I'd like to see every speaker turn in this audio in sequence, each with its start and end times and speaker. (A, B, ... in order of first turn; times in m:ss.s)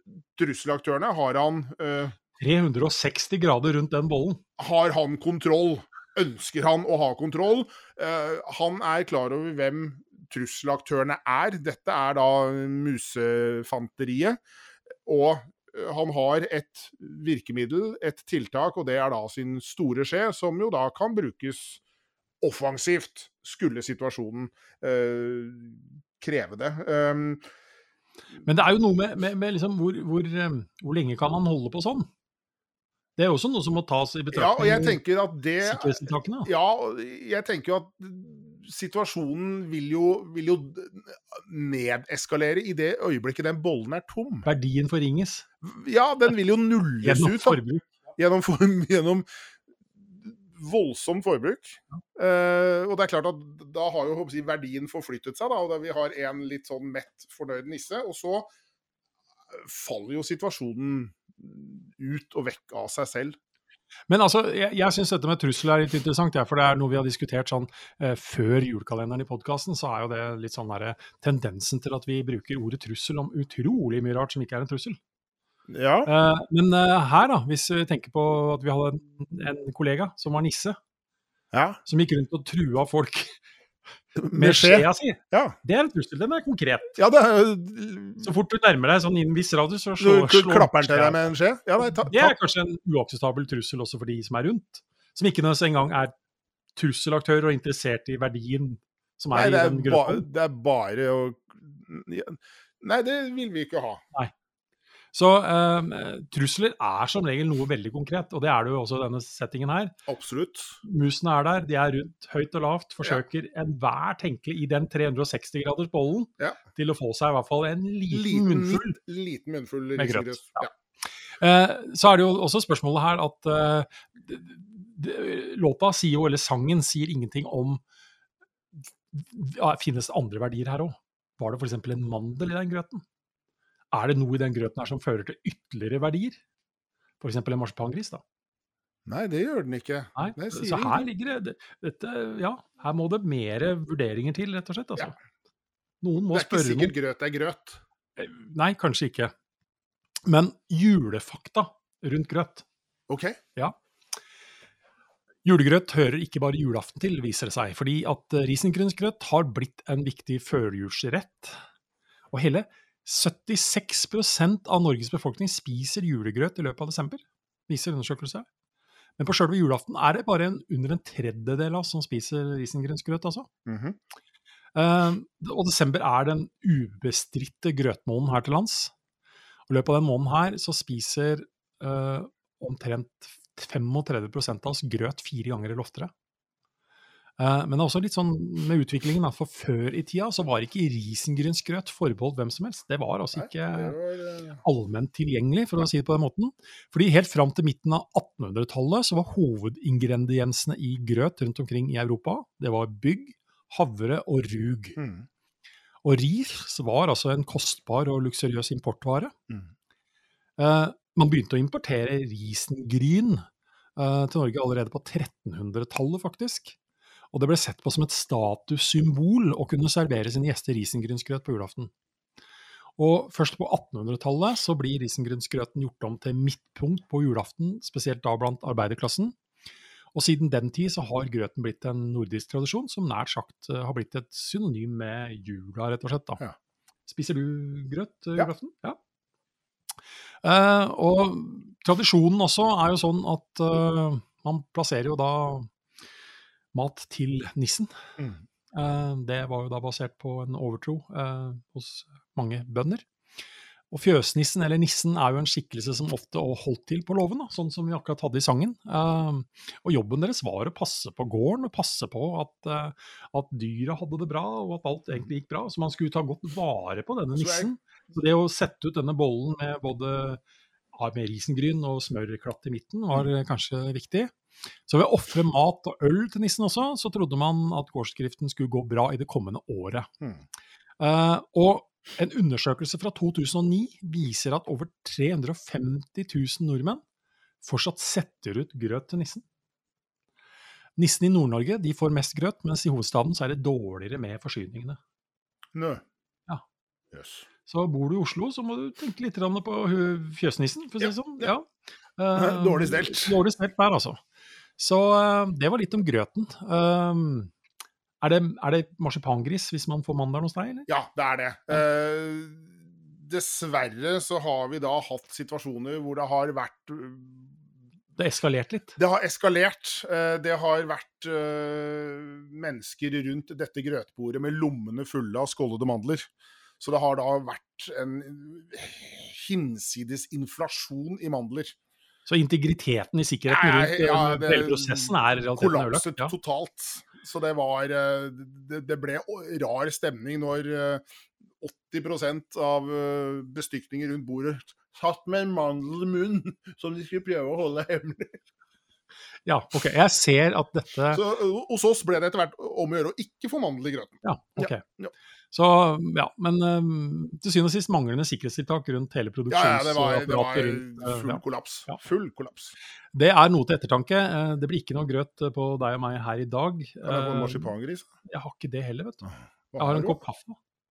0:00.4-0:02.2 A
0:02.4-0:04.4 B
0:04.6-0:14.4 A
0:15.1-0:21.8 A
0:22.4-0:27.4 A
0:28.4-0:32.1 B
0:33.2-0:35.0 B
0:34.3-0:44.5 A
0:35.6-0:36.5 B
0:44.4-0:45.4 B
0:45.6-0:47.6 A
0:47.0-0:47.9 B
0:48.2-0:49.3 A
0:50.0-0:58.5 A
0:59.5-1:03.4 A
1:04.1-1:15.0 B
1:15.7-1:16.1 A
1:16.1-1:20.8 B
1:21.5-1:21.8 A
1:21.8-1:23.3 B
1:24.2-1:25.6 A
1:24.3-1:27.0 B
1:27.0-1:28.3 A
1:28.2-1:36.1 B
1:30.0-1:32.4 A
1:36.8-1:40.2 B
1:39.3-1:44.0 A
1:45.1-1:49.9 B
1:50.1-1:50.8 A
1:50.8-1:59.0 B
1:58.1-2:00.7 A
2:00.0-2:00.7 B
2:01.4-2:07.8 B
2:09.1-2:13.0 B
2:13.9-2:16.4 B
2:17.2-2:18.2 B
2:19.1-2:21.0 A
2:20.2-2:25.1 B
2:26.0-2:26.9 B
2:26.2-2:27.8 A
2:28.2-2:29.3 B
2:30.3-2:32.6 B
2:33.1-2:33.4 A
2:35.4-2:41.6 B
2:42.3-2:48.5 B
2:49.2-2:53.5 B
2:53.7-2:54.0 A
2:54.8-2:58.9 B
2:59.7-3:06.1 B
3:07.4-3:14.0 B
3:13.3-3:14.6 A
3:14.6-3:25.0 B
3:25.0-3:25.3 A
3:26.0-3:29.3 B
3:30.6-3:33.4 B
3:34.0-3:36.8 B
3:37.3-3:41.9 B
3:43.0-3:49.4 B
3:50.1-3:56.4 B
3:57.1-3:59.0 B
4:00.4-4:05.7 B
4:06.7-4:07.9 B
4:08.7-4:13.1 B
4:13.9-4:30.4 B
4:27.4-4:27.7 A
4:31.0-4:34.3 B
4:34.9-4:40.1 B
4:41.0-4:47.0 B
4:47.6-4:49.4 B
4:51.0-4:55.0 B
4:55.8-4:56.0 A
4:57.1-4:57.5 A
4:57.7-5:04.2 B
5:01.0-5:01.5 A
5:02.4-5:03.4 A
5:04.8-5:07.5 B
5:08.2-5:10.9 B
5:10.9-5:17.5 A
5:18.2-5:19.0 B
5:19.0-5:26.3 A
5:26.8-5:31.8 A
5:32.3-5:36.3 B
5:33.5-5:41.0 A
5:41.6-5:48.4 A
5:49.4-5:51.2 B
5:51.1-5:55.1 A
5:54.2-5:54.8 B
5:55.5-6:02.0 B
5:59.5-6:02.8 A
6:03.1-6:07.7 B
6:07.0-6:08.1 A
6:08.3-6:09.2 B
6:09.2-6:10.2 A
6:09.8-6:10.6 B